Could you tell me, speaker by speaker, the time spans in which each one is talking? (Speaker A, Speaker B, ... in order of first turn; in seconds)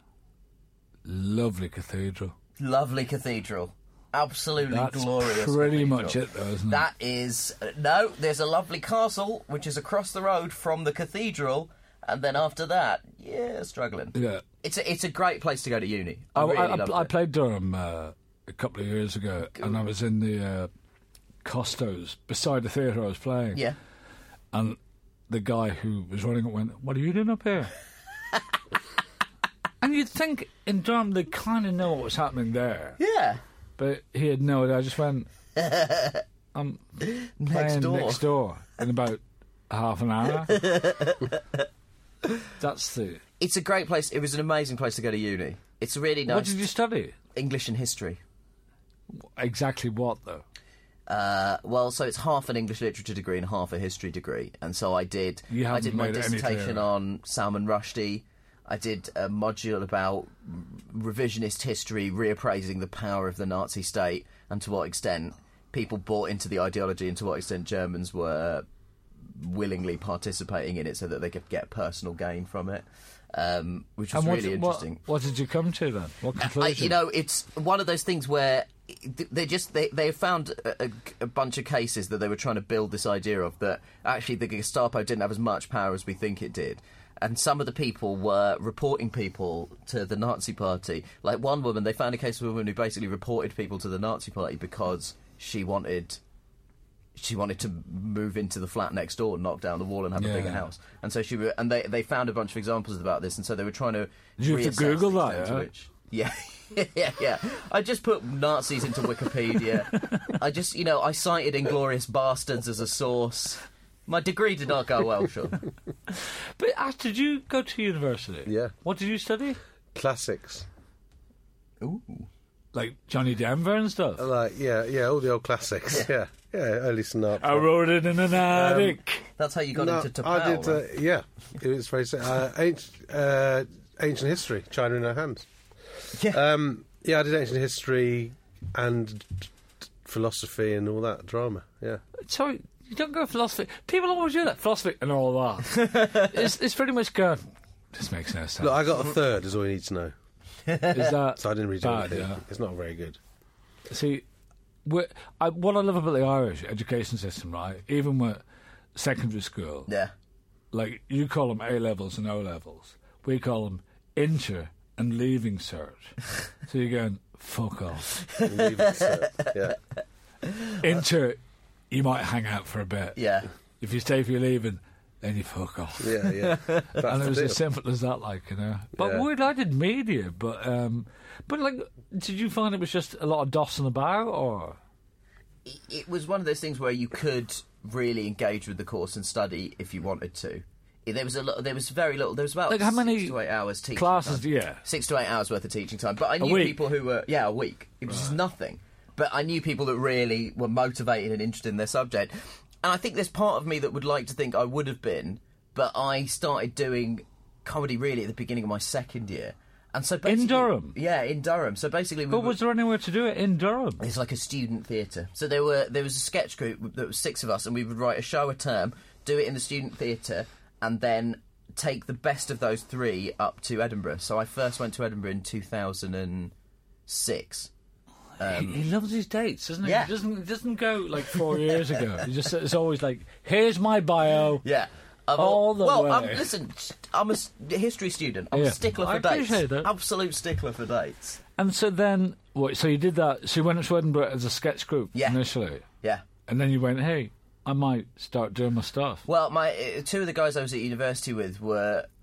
Speaker A: 1.1-2.3, 4.7-6.9, 14.2-14.4, 16.4-20.7, 21.4-23.6, 24.5-24.8, 25.3-27.7, 29.8-33.0, 33.8-35.3, 36.5-37.0, 37.5-40.6, 42.6-43.2, 46.3-47.1, 49.1-50.4, 55.5-56.9, 74.1-77.0, 100.2-100.6, 104.4-105.7, 109.9-110.3, 116.1-119.6, 122.7-124.2, 127.4-129.2, 142.2-148.9, 150.9-152.4, 153.9-154.2, 154.8-158.4, 158.9-159.9, 160.7-168.2, 170.8-171.4, 171.9-173.2, 173.8-176.2, 177.0-184.8, 192.7-193.4, 193.9-194.8, 196.4-196.8, 198.1-198.3, 210.2-211.0, 212.3-214.0, 228.4-234.7, 235.4-236.5, 238.5-239.9, 241.6-245.8, 246.5-249.2
Speaker B: 2.6-17.1, 33.0-33.4, 35.6-36.2, 37.0-38.2, 40.4-41.6, 43.4-46.5, 47.4-48.2, 51.1-68.7, 69.2-75.0, 76.4-96.2, 97.2-115.6, 121.8-122.3, 129.4-130.8, 136.1-136.4, 145.8-146.3, 150.7-151.1, 159.9-160.1, 168.3-169.7, 170.5-170.8, 173.2-173.5, 176.4-177.1, 185.7-212.6, 214.0-226.5, 227.1-227.7, 228.4-228.8, 229.8-230.1, 231.3-232.1, 234.6-241.4, 245.1-245.4, 249.3-252.1
Speaker C: 118.5-118.7, 119.9-120.7, 124.2-127.7, 128.4-129.0, 129.7-135.5, 136.3-139.5, 140.0-142.0, 148.6-150.1, 151.4-153.2, 168.4-169.8, 176.0-177.6, 179.0-179.3